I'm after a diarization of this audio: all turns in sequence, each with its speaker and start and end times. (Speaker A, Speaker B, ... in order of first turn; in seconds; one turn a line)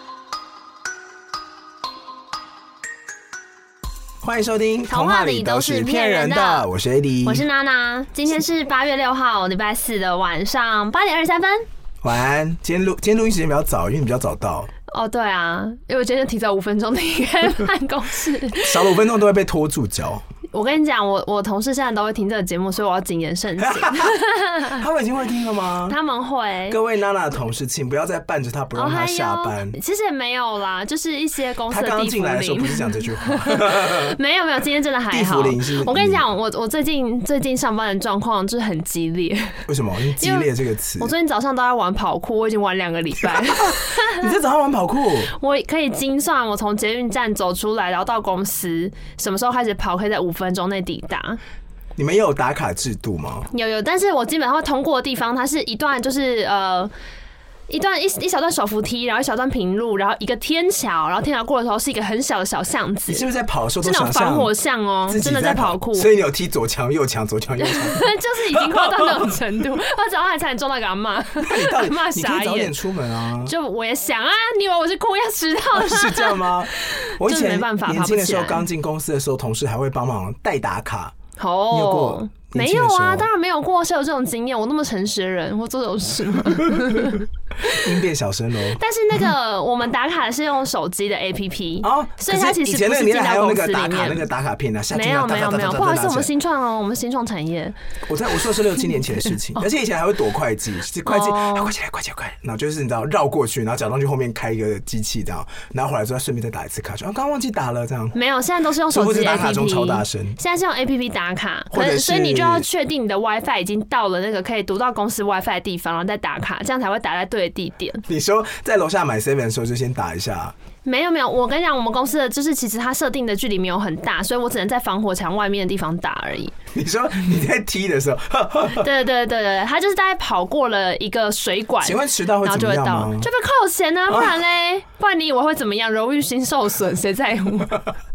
Speaker A: 4.2-7.4
Speaker B: 4.9-6.7
Speaker B: 7.2-11.7
Speaker A: 12.0-14.7
Speaker B: 14.9-18.9
Speaker A: 18.6-20.2
Speaker B: 20.5-24.8
Speaker A: 23.6-24.2
Speaker A: 24.7-26.0
Speaker B: 25.9-26.8
Speaker A: 26.7-29.8
Speaker B: 28.8-39.6
Speaker A: 31.7-34.2
Speaker A: 35.1-36.2
Speaker A: 39.7-41.1
Speaker B: 40.2-44.3
Speaker A: 44.1-45.3
Speaker B: 45.3-51.4
Speaker A: 52.0-53.5
Speaker B: 53.5-56.9
Speaker B: 57.7-63.2
Speaker A: 63.1-64.5
Speaker B: 63.8-66.1
Speaker A: 65.1-69.3
Speaker B: 67.6-72.8
Speaker A: 71.4-73.5
Speaker B: 73.4-78.7
Speaker A: 75.7-81.1
Speaker B: 81.4-87.2
Speaker A: 81.7-83.3
Speaker A: 87.6-88.8
Speaker B: 88.8-94.3
Speaker A: 91.8-96.3
Speaker B: 94.9-97.8
Speaker A: 98.1-108.2
Speaker B: 101.1-101.7
Speaker B: 108.1-118.0
Speaker A: 108.9-110.4
Speaker A: 111.7-112.7
Speaker A: 118.1-120.5
Speaker B: 120.8-126.5
Speaker A: 126.7-128.8
Speaker B: 128.8-137.8
Speaker A: 131.8-133.3
Speaker A: 134.1-134.4